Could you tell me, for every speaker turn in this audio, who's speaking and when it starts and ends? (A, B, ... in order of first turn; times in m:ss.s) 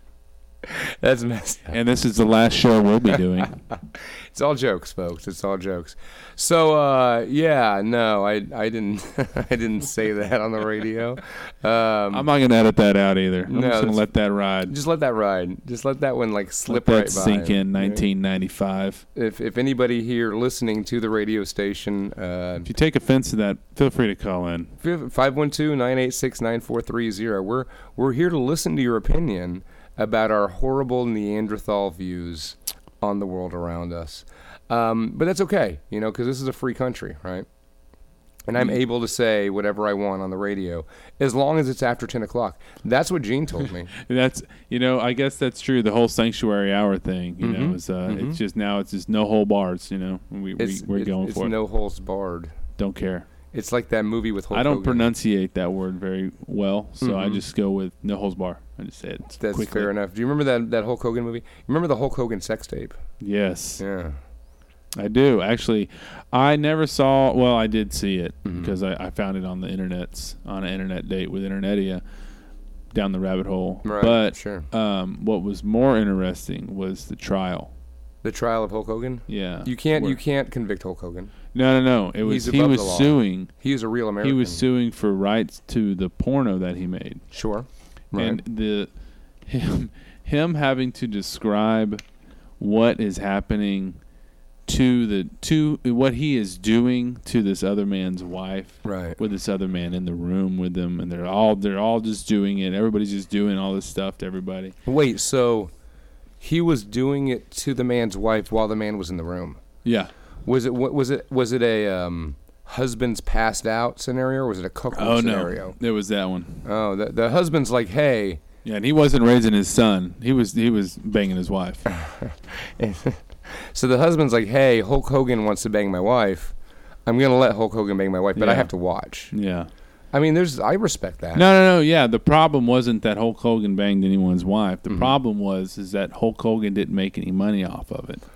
0:00.6-0:01.8 A
0:01.7-0:03.6 B
0:03.7-0:12.2 A
0:12.1-0:14.8 B
0:13.5-0:14.1 A
0:14.7-0:18.0 A
0:16.7-0:19.0 B
0:19.1-0:22.7 A
0:22.6-0:24.7 B
0:24.8-0:37.5 A
0:38.5-0:43.9 A
0:38.6-0:38.8 B
0:44.0-0:51.5 B
0:47.4-0:48.4 A
0:50.6-0:52.5 A
0:52.8-0:53.3 B
0:53.5-0:55.1 A
0:54.5-0:59.9 B
0:57.0-0:57.4 A
0:59.4-1:03.0 A
1:03.2-1:03.8 B
1:03.8-1:04.2 A
1:04.9-1:12.0 B
1:08.4-1:08.7 A
1:12.9-1:17.7 B
1:13.8-1:14.7 A
1:18.2-1:21.3 A
1:19.3-1:20.2 B
1:21.5-1:23.5 B
1:22.2-1:24.6 A
1:24.2-1:27.2 B
1:27.3-1:28.4 A
1:28.1-1:28.9 B
1:29.4-1:32.0 B
1:32.6-1:34.0 B
1:34.6-1:44.7 B
1:38.8-1:39.2 A
1:44.8-1:45.7 A
1:46.4-1:49.6 A
1:49.8-1:50.1 B
1:50.4-1:55.8 A
1:54.9-1:56.6 B
1:56.6-1:58.4 A
1:58.6-2:01.8 B
2:01.9-2:06.5 A
2:07.1-2:09.3 A
2:08.4-2:08.7 B
2:09.3-2:09.7 B
2:10.1-2:11.4 A
2:11.3-2:18.2 B
2:14.9-2:15.2 A